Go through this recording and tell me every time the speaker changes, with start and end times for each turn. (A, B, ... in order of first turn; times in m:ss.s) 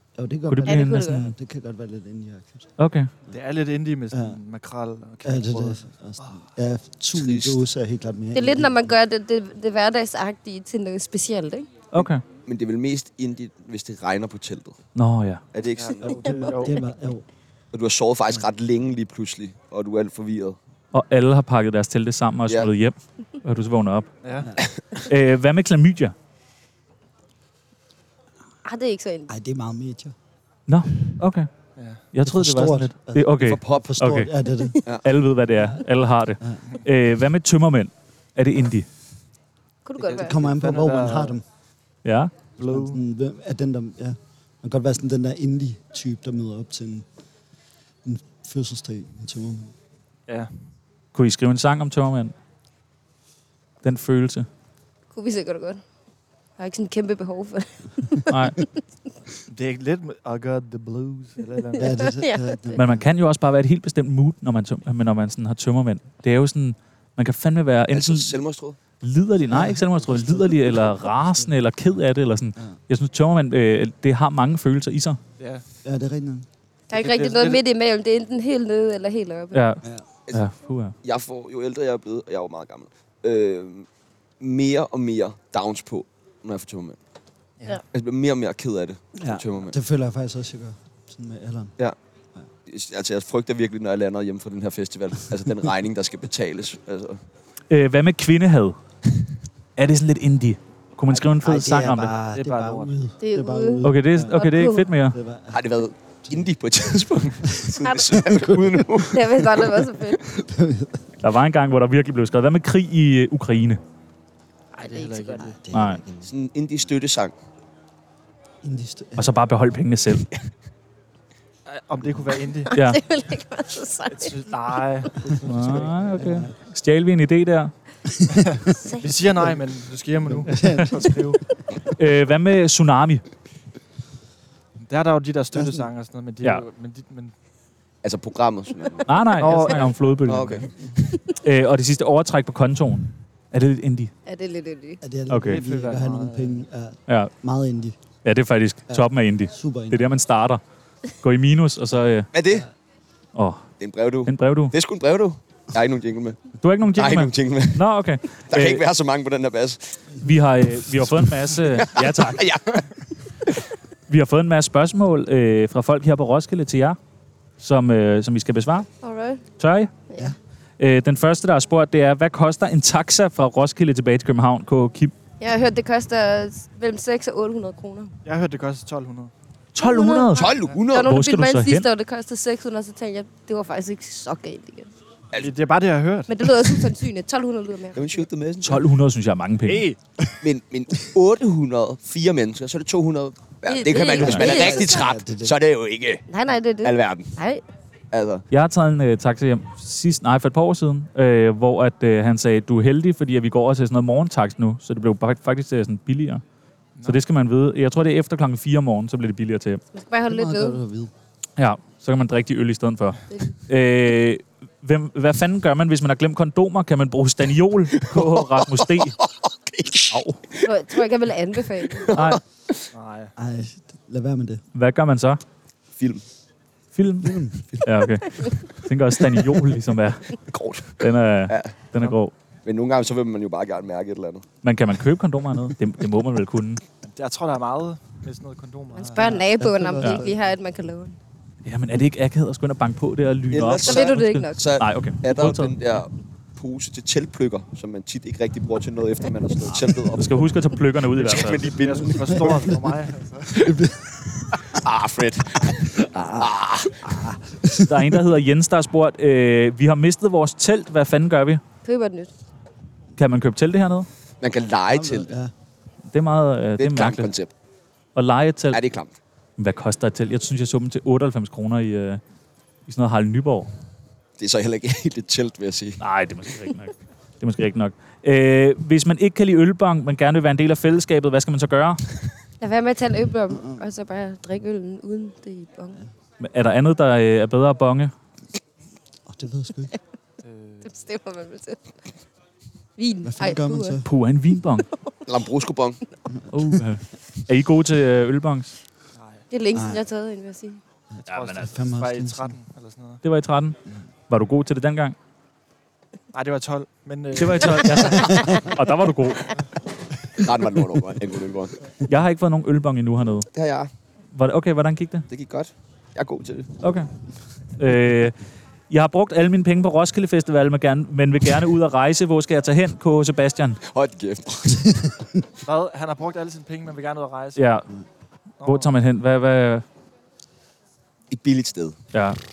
0:00.2-0:02.8 A
0:00.5-0:01.3 B
0:00.7-0:01.2 C
0:02.8-0:03.1 B
0:03.3-0:06.5 D
0:04.1-0:04.4 A
0:05.2-0:08.9 A
0:07.2-0:07.6 E
0:08.3-0:11.7 C
0:11.9-0:12.2 B
0:12.0-0:14.8 E
0:15.0-0:15.4 B
0:15.5-0:16.5 E
0:15.8-0:16.8 D
0:16.5-0:17.2 A
0:17.7-0:20.6 E
0:20.9-0:24.1 B
0:24.2-0:24.5 D
0:25.0-0:26.1 B
0:28.6-0:29.3 C
0:29.3-0:30.2 A
0:30.7-0:31.5 B
0:31.8-0:32.1 D
0:32.1-0:34.3 B
0:32.2-0:34.8 A
0:33.4-0:33.9 E
0:34.8-0:38.9 B
0:35.5-0:35.8 A
0:39.8-0:40.4 C
0:40.0-0:41.4 D
0:40.1-0:41.4 A
0:42.0-0:42.4 B
0:42.6-0:43.0 D
0:42.6-0:47.1 A
0:48.0-0:49.7 A
0:50.3-0:50.7 D
0:51.1-0:52.3 B
0:53.8-0:54.5 B
0:55.1-0:55.8 C
0:56.6-0:58.2 C
0:58.3-0:58.6 B
0:59.5-1:02.1 D
1:01.8-1:03.1 A
1:01.8-1:02.6 C
1:02.8-1:08.4 B
1:07.9-1:08.8 E
1:09.0-1:15.2 B
1:09.5-1:11.5 A
1:15.4-1:15.6 D
1:15.8-1:16.5 A
1:16.9-1:19.6 C
1:16.9-1:17.6 D
1:19.5-1:21.0 B
1:21.0-1:23.9 E
1:24.4-1:27.0 E
1:27.9-1:29.8 E
1:29.2-1:31.8 A
1:32.7-1:37.2 E
1:37.7-1:38.8 B
1:39.8-1:42.2 B
1:41.4-1:46.5 A
1:42.3-1:43.0 D
1:43.2-1:44.8 C
1:43.8-1:45.2 B
1:45.5-1:49.5 E
1:47.4-1:49.1 A
1:47.8-1:48.1 C
1:49.1-1:50.2 C
1:50.2-1:51.1 A
1:51.2-1:53.8 B
1:54.8-1:55.6 D
1:54.8-1:55.5 C
1:55.4-1:56.3 A
1:55.7-1:56.0 B
1:56.3-1:57.3 E
1:58.6-1:59.3 A
1:59.2-2:00.3 B
2:01.7-2:02.8 D
2:02.7-2:04.5 C
2:02.7-2:03.0 B
2:04.1-2:06.2 D
2:05.2-2:06.5 A
2:05.4-2:07.7 B
2:08.5-2:11.4 D
2:08.8-2:09.1 C
2:10.3-2:11.4 A
2:10.6-2:10.9 B
2:11.9-2:13.2 B
2:14.8-2:17.3 D
2:15.5-2:15.9 A
2:18.0-2:19.3 E
2:19.1-2:20.7 B
2:19.4-2:20.2 D
2:20.2-2:20.7 E
2:21.3-2:24.1 B
2:24.3-2:25.0 C
2:25.0-2:28.0 A
2:25.3-2:25.6 B
2:25.4-2:26.6 D
2:28.2-2:30.6 B
2:28.9-2:30.0 A
2:31.1-2:32.3 B
2:32.3-2:32.7 E
2:33.4-2:33.7 B
2:33.8-2:36.4 E
2:34.2-2:34.7 B
2:36.6-2:38.8 B
2:37.0-2:37.8 E
2:38.5-2:40.0 E
2:40.2-2:42.4 B
2:41.7-2:42.9 E
2:44.1-2:47.0 B
2:47.6-2:48.9 B
2:49.0-2:49.4 C
2:49.6-2:49.9 B
2:50.8-2:55.1 B
2:55.4-2:58.2 C
2:58.2-2:59.3 D
2:59.8-3:01.9 B
2:59.8-3:04.9 C
3:00.4-3:01.2 E
3:05.4-3:06.8 D
3:06.3-3:08.0 C
3:07.9-3:08.8 E
3:08.6-3:09.9 B
3:09.6-3:10.4 D
3:10.4-3:16.2 E
3:13.7-3:15.0 C
3:14.1-3:15.6 A
3:16.3-3:17.6 C
3:16.8-3:17.3 E
3:18.1-3:18.5 E
3:18.5-3:26.4 B
3:27.0-3:27.2 D
3:27.0-3:29.8 B
3:29.9-3:30.8 C
3:30.3-3:31.1 A
3:31.6-3:39.2 B
3:38.1-3:40.7 E
3:40.1-3:40.4 B
3:40.6-3:42.1 C
3:41.8-3:42.9 E
3:42.1-3:42.4 B
3:42.9-3:43.3 D
3:43.4-3:44.6 A
3:44.8-3:45.4 B
3:46.0-3:46.2 E
3:46.9-3:50.4 B
3:47.2-3:47.9 A
3:50.4-3:51.8 E
3:51.0-3:52.3 B
3:52.6-3:54.5 E
3:54.6-3:56.8 B
3:57.0-3:59.5 D
3:58.9-4:01.2 C
3:59.2-4:00.4 A
4:01.6-4:05.7 B
4:03.5-4:10.4 E
4:03.8-4:04.7 C
4:09.7-4:11.7 B
4:11.1-4:12.8 E
4:11.8-4:13.5 D
4:12.2-4:12.8 A
4:13.5-4:14.6 A
4:14.6-4:17.1 E
4:15.7-4:18.2 A
4:17.8-4:21.6 B
4:21.8-4:22.3 C
4:23.2-4:24.1 B
4:24.4-4:25.3 E
4:24.9-4:25.5 A
4:26.1-4:27.3 B
4:26.8-4:27.5 E
4:28.2-4:28.8 B
4:28.7-4:29.2 E
4:29.6-4:32.2 B
4:32.9-4:33.7 B
4:34.4-4:36.0 E
4:36.0-4:42.1 B
4:42.6-4:46.0 C
4:43.5-4:43.8 A
4:46.4-4:48.1 B
4:49.3-4:49.9 A
4:50.4-4:51.0 D
4:50.8-4:51.9 C
4:53.0-4:54.0 C
4:53.2-4:54.1 A
4:54.0-4:54.9 B
4:55.3-4:56.0 E
4:56.3-4:56.8 A
4:56.5-4:58.8 B
4:59.2-4:59.4 D
4:59.5-5:00.8 C
4:59.7-5:00.0 A
5:01.1-5:02.6 A
5:01.3-5:01.8 B
5:01.3-5:03.2 D
5:03.2-5:03.8 B
5:04.3-5:05.2 B
5:06.3-5:08.6 D
5:07.4-5:09.6 B
5:10.4-5:11.8 E
5:12.1-5:13.5 B
5:13.5-5:13.9 E
5:14.3-5:15.3 B
5:15.3-5:16.9 E
5:16.8-5:17.1 B
5:17.8-5:18.4 B
5:18.9-5:23.8 B
5:23.8-5:24.8 E
5:24.7-5:25.4 A
5:25.6-5:27.8 D
5:27.6-5:27.9 B
5:28.6-5:28.9 D
5:28.6-5:29.8 B
5:31.3-5:32.0 E
5:32.1-5:32.4 B